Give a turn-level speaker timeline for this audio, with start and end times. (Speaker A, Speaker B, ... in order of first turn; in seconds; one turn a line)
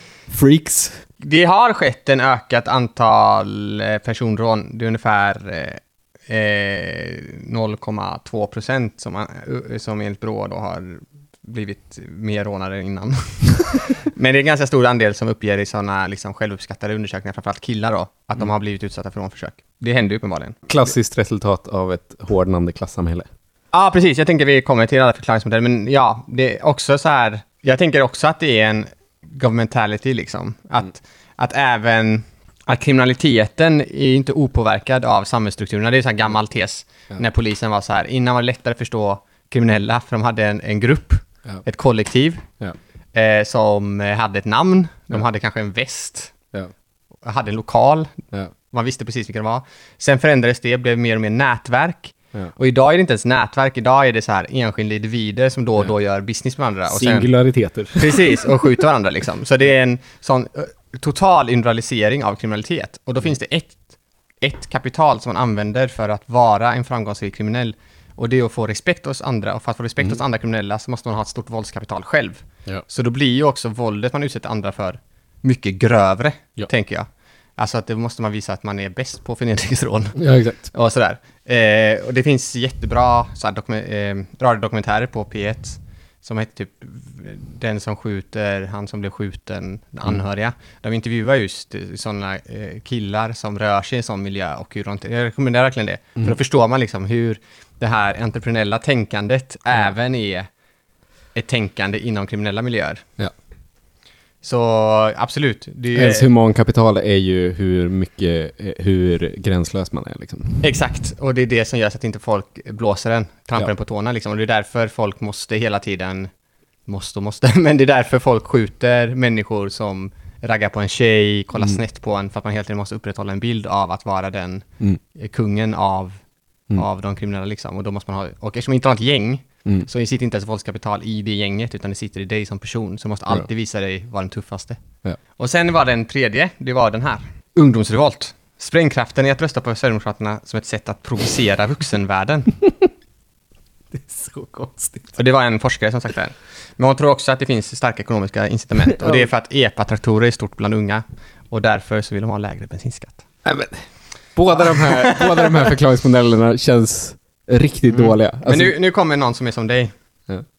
Speaker A: 0.3-1.1
Speaker B: 1.2-20.9
Speaker A: 20.7-23.3
Speaker B: 23.7-42.5
Speaker B: 43.1-46.4
Speaker B: 47.2-48.1
Speaker B: 48.7-57.3
Speaker A: 56.9-58.5
Speaker B: 58.0-63.8
Speaker B: 64.4-100.5
Speaker A: 80.2-80.7
Speaker B: 101.3-103.0
Speaker B: 104.4-106.3
Speaker A: 105.9-110.6
Speaker B: 110.6-116.3
Speaker B: 116.9-126.2
Speaker B: 126.7-134.8
Speaker B: 135.4-142.6
Speaker A: 143.9-145.2
Speaker B: 145.2-153.2
Speaker A: 149.0-149.3
Speaker A: 153.4-158.7
Speaker B: 154.6-155.5
Speaker B: 157.9-159.9